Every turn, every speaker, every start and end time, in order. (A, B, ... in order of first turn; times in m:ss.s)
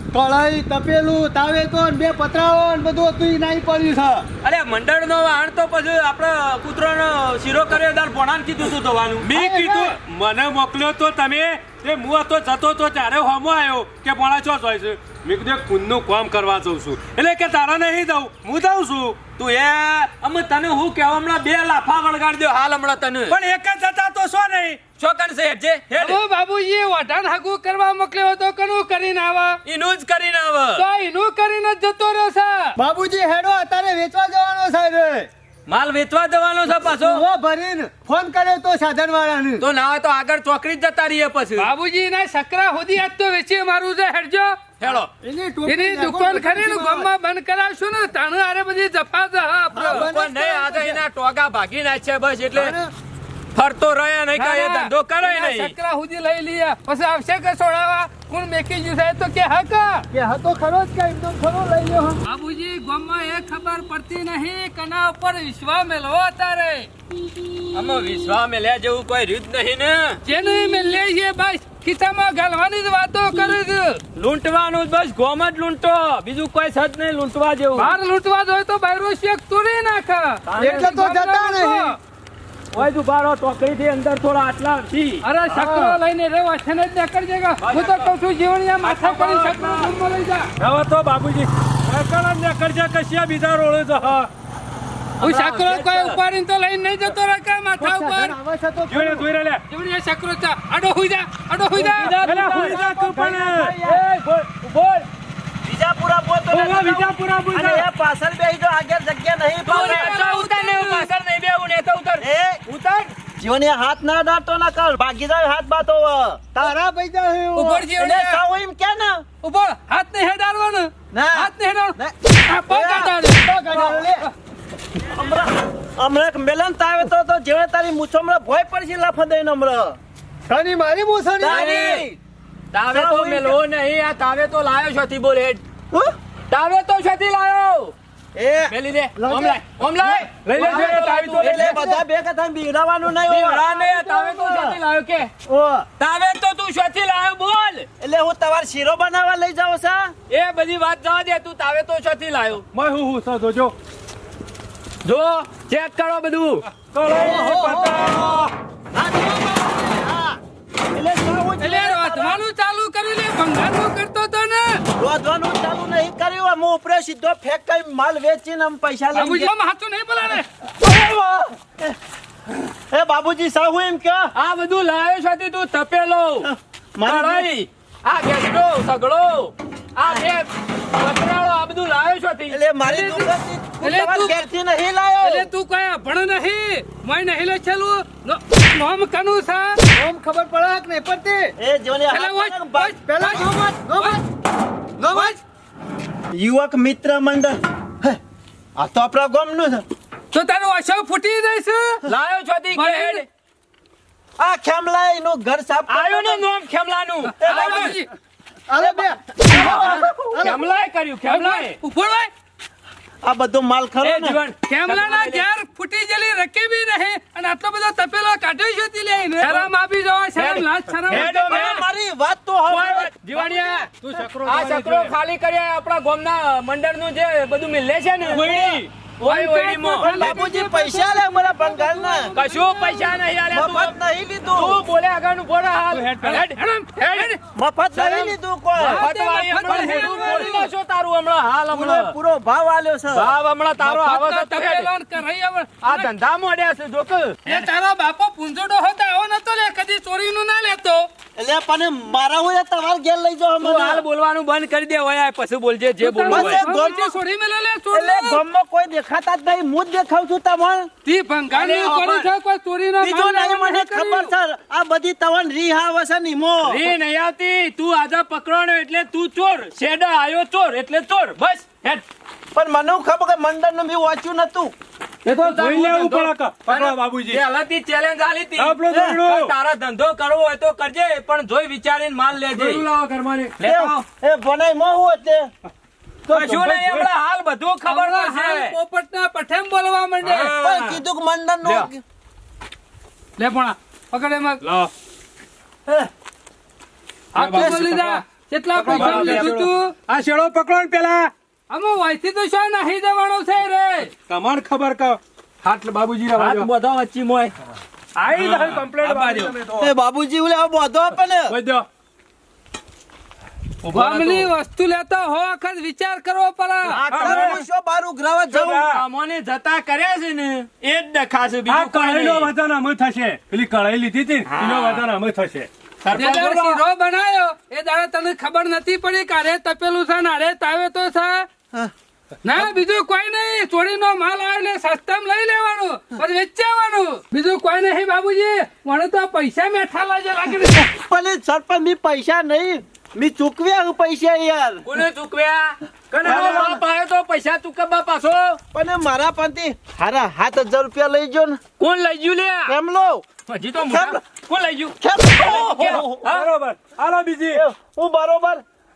0:00.1-0:04.2 A
0:04.4-0:09.3 B
0:09.2-0:19.2 C
0:09.3-0:10.0 A
0:19.4-0:23.4 B
0:23.3-0:24.8 C
0:25.0-0:26.2 B
0:26.0-0:29.6 D
0:29.6-0:30.8 B
0:30.8-0:32.7 D
0:32.8-0:35.3 A
0:35.7-0:37.2 B
0:37.0-0:39.6 A
0:39.6-0:41.7 B
0:41.6-0:44.6 D
0:44.8-0:45.1 B
0:44.9-0:47.1 A
0:45.6-0:50.1 D
0:49.8-0:51.0 A
0:49.8-0:52.8 B
0:52.5-0:52.9 A
0:53.5-0:55.7 B
0:54.4-1:00.1 D
1:00.1-1:02.2 A
1:02.2-1:06.9 D
1:07.7-1:10.2 B
1:10.2-1:14.0 D
1:14.2-1:18.0 B
1:17.8-1:22.0 D
1:20.4-1:20.9 B
1:20.6-1:21.9 A
1:22.7-1:25.2 B
1:25.2-1:30.5 D
1:27.6-1:28.1 B
1:28.8-1:29.9 C
1:28.9-1:29.7 B
1:30.6-1:34.3 C
1:35.2-1:36.2 B
1:35.2-1:38.3 D
1:37.8-1:39.2 A
1:38.9-1:39.6 C
1:39.7-1:42.2 D
1:41.8-1:45.1 B
1:42.0-1:43.8 C
1:42.2-1:43.8 A
1:45.6-1:50.2 E
1:46.5-1:47.9 C
1:49.6-1:53.1 B
1:49.7-1:51.1 D
1:52.2-1:52.6 E
1:53.4-1:56.8 E
1:56.6-1:57.8 A
1:57.5-1:58.4 D
1:57.6-1:59.2 E
1:59.4-2:04.3 D
2:01.1-2:03.2 E
2:03.3-2:04.2 A
2:05.0-2:10.0 E
2:10.5-2:11.7 A
2:11.4-2:12.2 E
2:11.5-2:12.1 B
2:12.7-2:15.6 B
2:12.9-2:13.6 E
2:16.5-2:17.9 B
2:18.4-2:18.7 E
2:18.7-2:22.0 B
2:19.2-2:19.6 A
2:20.4-2:21.9 C
2:20.6-2:23.7 E
2:23.2-2:25.3 B
2:23.7-2:24.4 A
2:24.4-2:24.8 E
2:25.4-2:25.9 E
2:26.0-2:27.9 B
2:28.0-2:30.1 E
2:30.3-2:32.6 B
2:32.7-2:33.8 C
2:35.0-2:36.6 B
2:36.8-2:38.5 C
2:37.1-2:40.4 A
2:40.9-2:42.4 E
2:41.6-2:44.8 D
2:45.0-2:49.5 E
2:49.1-2:50.5 D
2:50.8-2:51.9 E
2:52.9-2:54.3 E
2:54.4-2:56.5 B
2:56.4-2:57.5 E
2:57.0-3:02.6 B
3:02.5-3:05.5 E
3:02.8-3:03.3 D
3:03.8-3:04.4 D
3:05.2-3:09.8 D
3:10.0-3:11.5 A
3:11.6-3:13.4 E
3:12.1-3:14.2 D
3:13.0-3:14.2 A
3:15.0-3:15.4 A
3:15.1-3:15.4 D
3:16.3-3:18.2 E
3:18.8-3:19.8 E
3:20.3-3:22.0 D
3:22.0-3:23.3 B
3:22.7-3:23.2 D
3:24.4-3:26.4 E
3:25.9-3:28.0 B
3:27.3-3:28.1 D
3:27.4-3:28.0 E
3:28.7-3:30.6 A
3:28.8-3:30.5 E
3:29.5-3:31.8 B
3:31.3-3:32.3 D
3:33.2-3:34.4 E
3:34.0-3:35.4 B
3:34.6-3:41.9 D
3:39.4-3:39.7 B
3:40.4-3:41.8 B
3:41.1-3:43.1 E
3:42.7-3:50.3 B
3:43.3-3:43.9 D
3:44.0-3:45.1 C
3:48.2-3:48.9 C
3:49.2-3:53.2 D
3:50.0-3:52.4 E
3:52.3-3:53.9 B
3:53.5-3:54.8 E
3:54.5-3:57.4 B
3:55.9-3:56.4 C
3:56.2-3:57.4 D
3:57.5-3:59.0 E
3:58.8-4:00.7 D
3:58.8-4:02.1 B
3:59.7-4:00.3 C
4:01.7-4:03.4 E
4:03.1-4:04.9 B
4:03.8-4:06.1 D
4:05.8-4:07.7 B
4:07.4-4:11.1 D
4:11.4-4:14.0 E
4:13.6-4:16.6 B
4:16.0-4:18.4 D
4:16.3-4:17.1 E
4:17.9-4:20.9 E
4:21.0-4:24.3 D
4:21.5-4:22.3 A
4:23.0-4:26.8 E
4:26.6-4:32.0 B
4:32.5-4:34.7 E
4:35.2-4:42.9 B
4:35.3-4:37.4 C
4:38.6-4:39.5 C
4:42.5-4:43.5 C
4:43.6-4:44.0 B
4:43.6-4:45.5 E
4:46.3-4:48.8 B
4:46.3-4:47.1 C
4:47.9-4:50.5 D
4:50.3-4:51.0 B
4:50.6-4:52.0 E
4:53.4-4:54.6 D
4:54.6-4:54.9 C
4:57.3-4:59.9 D
4:57.4-4:58.2 C
4:57.6-4:57.9 E
4:58.8-5:01.3 C
4:58.8-4:59.5 B
5:01.7-5:04.1 D
5:04.3-5:05.2 C
5:05.6-5:07.5 B
5:05.8-5:06.7 C
5:08.2-5:09.9 C
5:08.3-5:09.6 B
5:09.8-5:11.5 E
5:11.5-5:11.9 B
5:13.8-5:14.5 B
5:13.9-5:17.0 D
5:16.9-5:18.9 E
5:17.1-5:17.6 C
5:17.1-5:17.5 B
5:18.5-5:19.0 C
5:18.7-5:22.5 B
5:21.7-5:26.6 C
5:24.4-5:25.0 B
5:26.0-5:26.8 B
5:26.1-5:31.5 D
5:32.4-5:40.9 D
5:40.7-5:45.0 E
5:44.8-5:48.6 B
5:46.2-5:46.7 C
5:46.3-5:46.8 E
5:48.7-5:51.6 E
5:51.8-5:52.7 B
5:52.7-5:53.2 E
5:53.5-5:56.5 B
5:53.8-5:54.2 E
5:55.0-5:56.2 E
5:55.8-5:57.6 C
5:57.5-5:58.6 E